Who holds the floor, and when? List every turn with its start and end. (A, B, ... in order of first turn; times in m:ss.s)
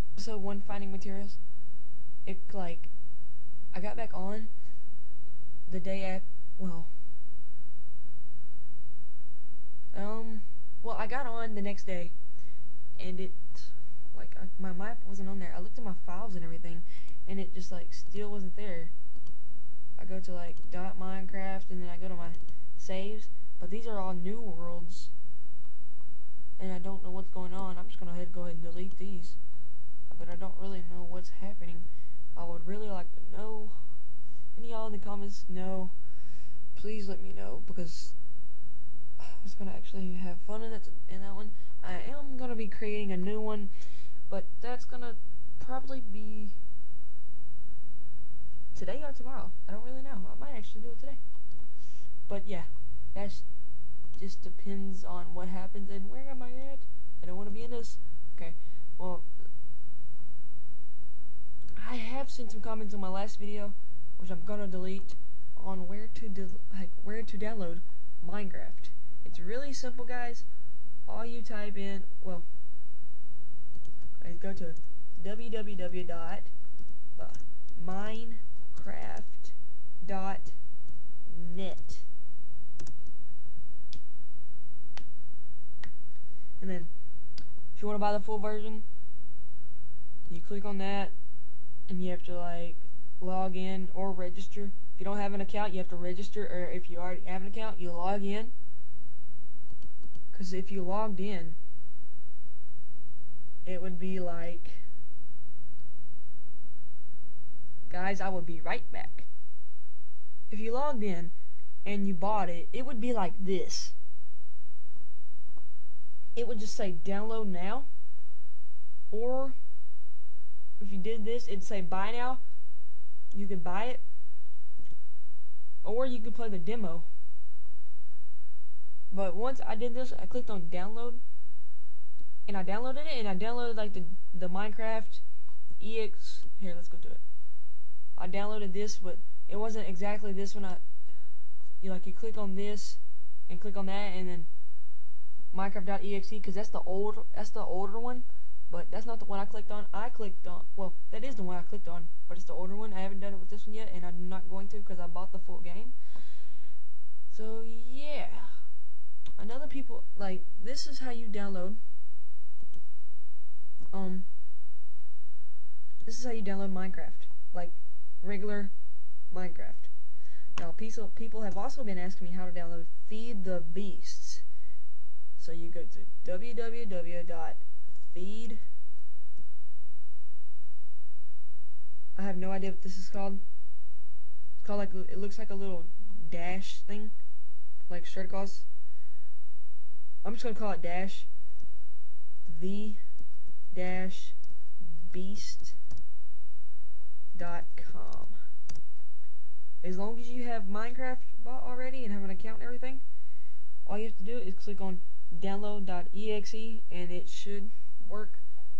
0:00.2-0:01.4 A
0:02.2-0:02.9 A
0:03.7-0:04.5 A
0:05.7-0:06.9 A
0:09.9-0:12.1 A
0:13.0-0:18.9 A
0:20.0-0:25.1 A
0:26.6-0:29.4 A
0:30.1-0:33.8 A
0:34.5-0:36.0 A
0:36.7-0:38.1 A
0:39.2-0:46.6 A
0:48.7-0:51.2 A
0:52.3-0:53.4 A
0:54.2-0:59.2 A
1:01.8-1:10.5 A
1:11.1-1:12.5 A
1:14.2-1:16.5 A
1:17.2-1:20.6 A
1:21.2-1:22.1 A
1:26.6-1:26.9 A
1:27.8-1:28.8 A
1:30.3-1:31.1 A
1:31.9-1:38.5 A
1:40.3-1:41.6 A
1:43.6-1:44.8 A
1:47.9-1:49.3 A
1:50.5-1:51.3 A
1:51.8-1:54.0 A
1:56.4-1:57.9 A
1:59.1-1:59.6 A
2:00.8-2:02.4 A
2:03.3-2:04.0 A
2:05.8-2:07.1 A
2:09.1-2:11.2 A
2:12.5-2:15.2 A
2:15.8-2:17.2 A
2:18.2-2:20.8 A
2:21.8-2:24.5 A
2:25.5-2:36.4 A
2:37.3-2:38.6 A
2:39.4-2:41.8 A
2:43.9-2:44.2 A
2:46.0-2:48.7 A
2:49.3-2:49.9 A
2:50.6-2:54.4 A
2:55.4-2:58.6 A
3:02.2-3:03.4 A
3:04.6-3:07.1 A
3:07.9-3:08.7 A
3:10.2-3:11.3 A
3:12.5-3:13.0 A
3:13.7-3:15.8 A
3:17.3-3:18.4 A
3:19.8-3:23.0 A
3:23.8-3:28.4 A